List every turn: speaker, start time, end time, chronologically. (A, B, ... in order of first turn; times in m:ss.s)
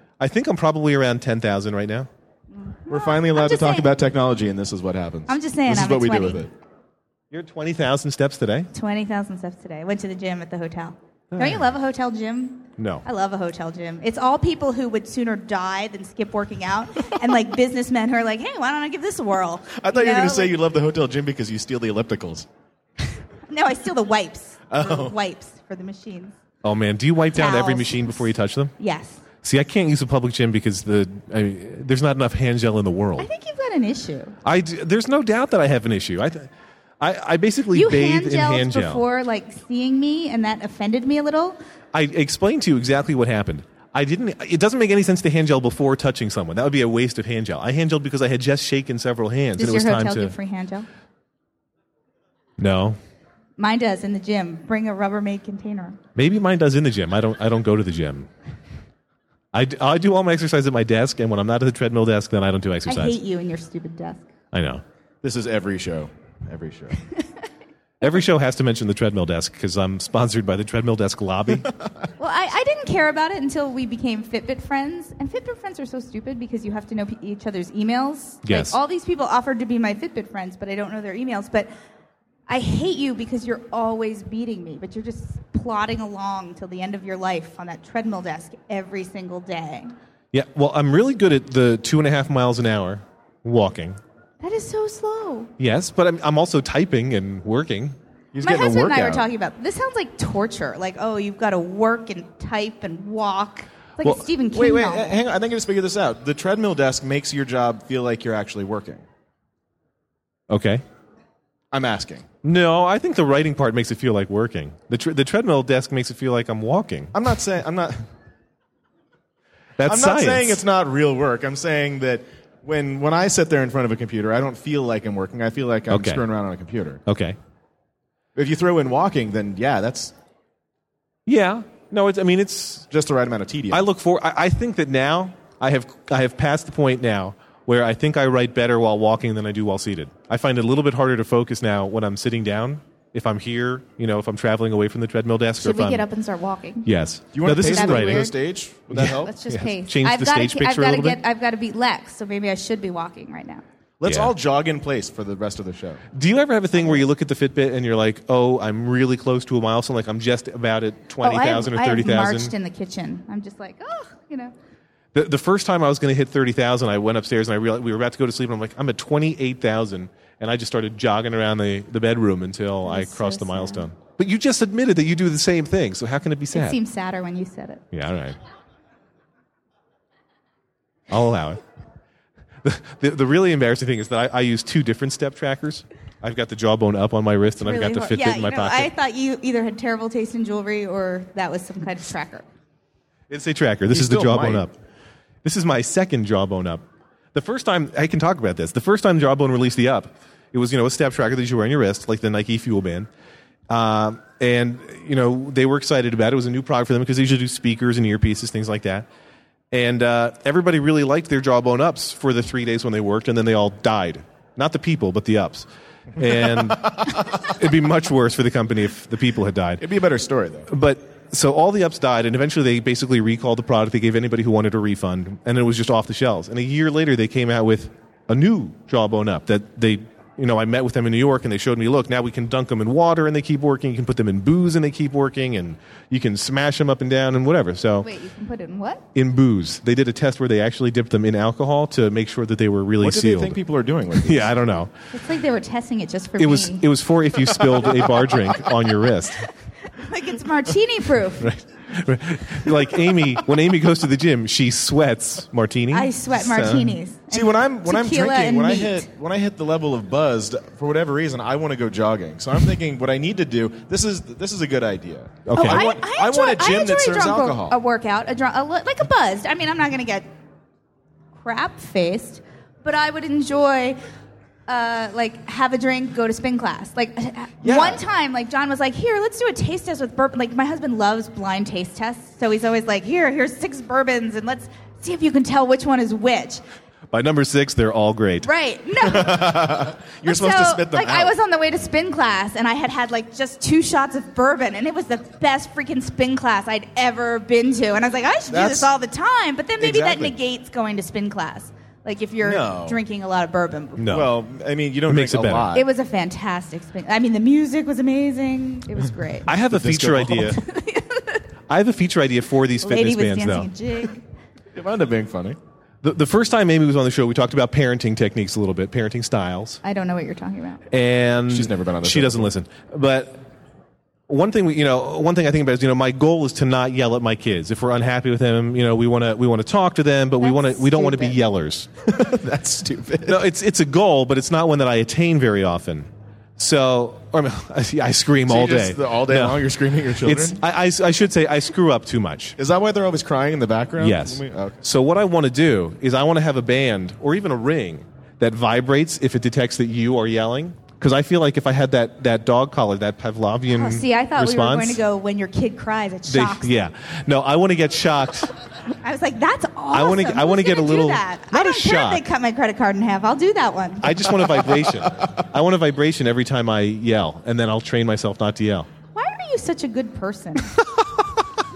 0:00.2-0:02.1 A
0:02.5-0:03.9 B
0:02.9-0:06.5 C
0:05.3-0:06.5 B
0:07.3-0:08.7 A
0:08.7-0:20.6 B
0:11.3-0:11.6 A
0:12.8-0:13.0 A
0:19.8-0:22.5 C
0:23.5-0:26.4 B
0:24.7-0:25.2 C
0:26.6-0:28.7 A
0:27.4-0:28.2 B
0:28.8-0:29.2 B
0:29.4-0:33.3 A
0:33.2-0:34.4 B
0:34.4-0:36.5 A
0:37.0-0:39.0 A
0:37.7-0:41.6 B
0:41.9-0:50.3 A
0:49.6-0:50.9 B
0:52.6-0:53.0 A
0:53.6-0:56.0 B
0:56.2-0:58.3 A
0:59.5-1:03.2 A
1:02.9-1:04.3 B
1:04.5-1:04.8 A
1:05.2-1:07.0 C
1:08.0-1:11.8 A
1:12.2-1:21.7 B
1:18.4-1:18.8 A
1:22.5-1:29.9 B
1:30.3-1:34.0 A
1:34.4-1:35.5 B
1:35.6-1:38.0 A
1:38.3-1:39.3 C
1:38.4-1:45.1 B
1:44.4-1:49.0 C
1:50.5-1:50.8 A
1:51.7-1:52.3 C
1:52.4-1:57.2 A
1:57.1-1:58.1 C
1:59.8-2:00.6 A
1:59.8-2:07.0 C
2:05.9-2:06.2 A
2:07.1-2:07.4 A
2:08.4-2:10.1 C
2:11.3-2:12.9 A
2:12.9-2:13.8 C
2:13.7-2:26.0 A
2:25.6-2:26.9 B
2:26.8-2:28.3 A
2:27.3-2:29.3 C
2:27.5-2:28.4 B
2:28.9-2:31.2 A
2:29.0-2:33.6 B
2:34.0-2:36.0 C
2:34.0-2:34.3 A
2:36.1-2:42.5 A
2:41.2-2:44.5 B
2:45.1-2:56.8 A
2:52.8-2:53.9 B
2:56.5-2:57.8 B
2:57.9-2:58.4 A
3:01.1-3:01.6 A
3:02.6-3:08.9 A
3:07.6-3:12.4 B
3:13.3-3:14.7 A
3:13.9-3:14.7 C
3:15.4-3:16.8 A
3:17.3-3:23.1 A
3:23.7-3:29.1 A
3:29.7-3:39.8 A
3:39.8-3:40.7 C
3:40.7-3:58.1 A
3:58.0-3:59.0 B
3:59.2-4:03.6 A
4:03.0-4:04.6 C
4:04.2-4:04.9 A
4:05.1-4:06.9 B
4:06.4-4:09.5 A
4:07.7-4:08.5 C
4:09.9-4:11.5 B
4:11.4-4:17.0 A
4:15.9-4:19.1 B
4:17.3-4:27.8 C
4:25.5-4:25.9 A
4:25.5-4:30.3 B
4:31.4-4:34.0 B
4:34.7-4:46.6 B
4:37.6-4:38.0 C
4:47.1-4:48.5 A
4:48.4-5:04.1 B
4:49.0-4:51.4 C
4:58.5-4:58.9 C
4:59.8-5:00.4 C
5:02.4-5:03.0 C
5:04.0-5:04.3 A
5:04.1-5:05.9 C
5:05.1-5:05.7 A
5:05.7-5:09.5 B
5:09.5-5:10.6 A
5:09.7-5:10.6 C
5:10.5-5:11.4 B
5:11.7-5:13.7 A
5:12.8-5:14.2 B
5:14.7-5:15.6 C
5:16.0-5:19.8 A
5:19.8-5:20.8 B
5:20.9-5:23.4 A
5:21.5-5:22.5 C
5:24.3-5:32.1 A
5:30.4-5:31.4 B
5:32.1-5:33.4 C
5:33.3-5:42.6 A
5:38.5-5:40.6 C
5:42.6-5:44.8 C
5:44.0-5:55.0 A
5:53.7-5:56.7 B
5:56.3-5:58.5 A
5:59.0-6:04.4 B
5:59.9-6:02.2 A
6:04.0-6:08.9 A
6:09.2-6:10.8 B